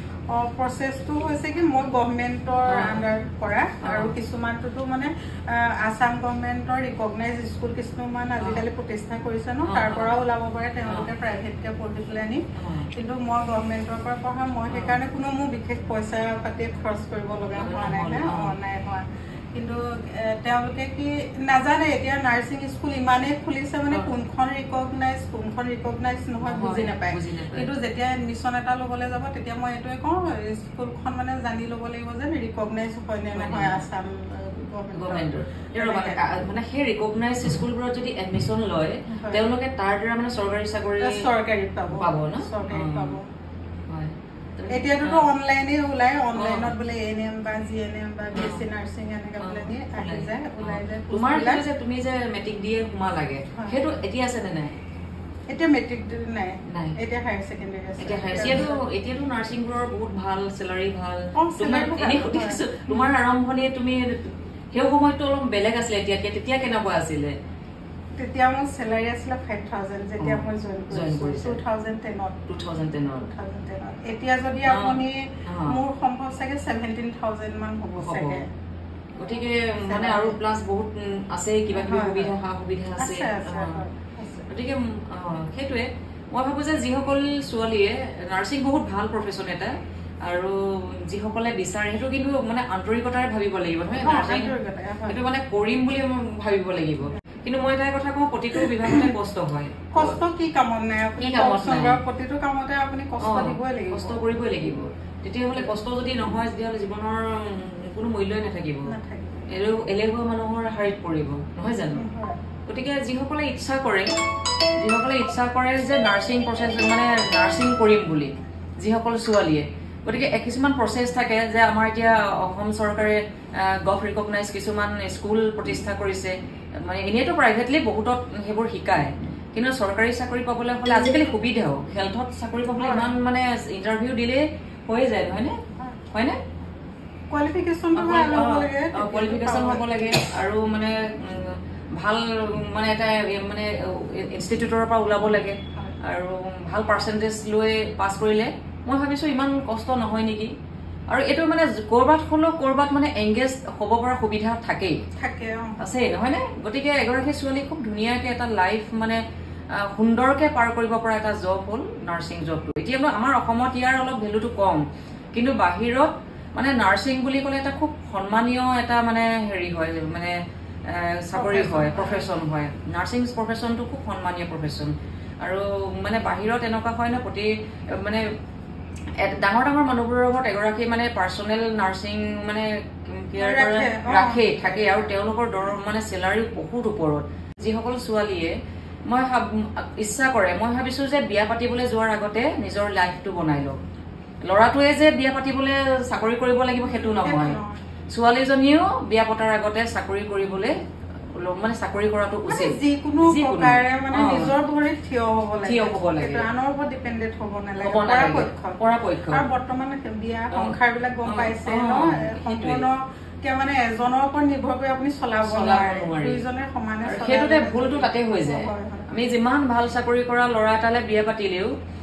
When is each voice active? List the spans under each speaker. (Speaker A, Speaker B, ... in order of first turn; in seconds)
Speaker A: 0.3-12.4, 12.9-36.3, 39.1-39.4, 41.0-43.3, 44.7-51.6, 53.5-53.8, 55.5-58.8, 61.4-63.1, 68.2-72.5, 73.1-78.5, 79.8-80.4, 81.7-82.3, 83.0-84.5, 94.0-95.2, 99.9-104.2, 108.9-109.5, 111.9-112.4, 132.8-133.1, 137.3-139.9, 155.2-155.8, 171.3-172.3, 183.4-185.2, 196.9-197.8, 202.5-219.1
Speaker B: 2.7-3.0, 3.8-4.1, 8.4-8.6, 9.7-10.1, 12.6-12.9, 14.7-15.0, 17.6-18.5, 26.4-27.7, 33.4-33.9, 34.9-41.2, 41.9-43.2, 43.9-45.3, 46.4-46.7, 48.3-48.6, 49.4-54.8, 56.7-57.0, 58.0-67.3, 70.2-71.6, 72.5-73.3, 74.7-75.8, 78.0-78.4, 79.2-83.8, 84.5-89.7, 90.2-94.5, 95.1-100.2, 101.2-102.0, 103.2-108.9, 109.5-112.0, 112.7-114.1, 114.8-135.6, 136.1-136.4, 138.0-150.5, 151.1-155.0, 155.8-159.2, 159.7-164.8, 165.3-170.3, 170.9-174.9, 175.4-178.3, 179.2-188.6, 189.1-193.8, 194.5-197.6, 198.1-200.8, 201.3-204.5, 205.6-206.4, 207.8-209.4, 211.2-212.9, 215.4-216.4, 217.1-221.7